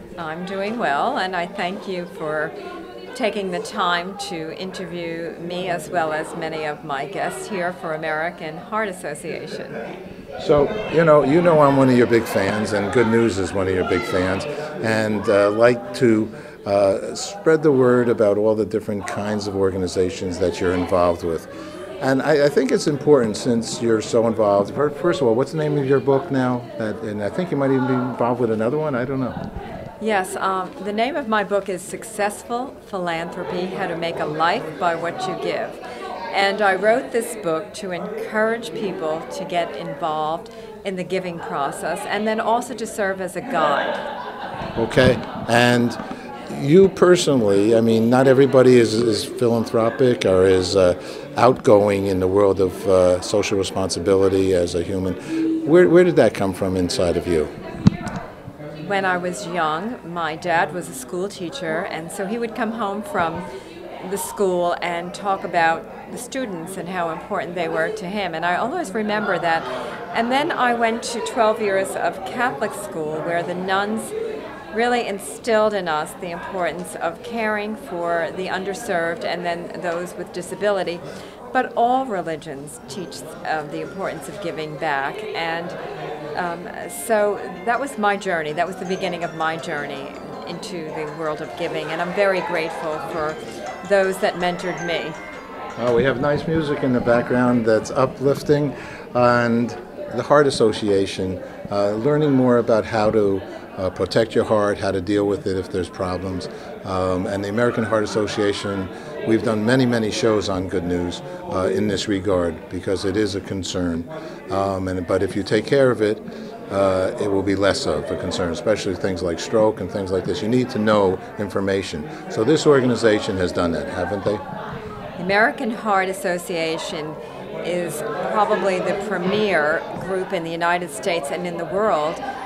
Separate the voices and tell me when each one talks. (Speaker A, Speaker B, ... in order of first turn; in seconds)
Speaker A: 0.2-2.5, 3.1-9.8, 30.0-44.0, 58.8-63.5, 64.0-74.1, 74.7-85.8, 86.3-95.2, 125.2-132.2
Speaker B: 10.4-21.5, 22.0-29.4, 44.8-57.5, 95.8-124.4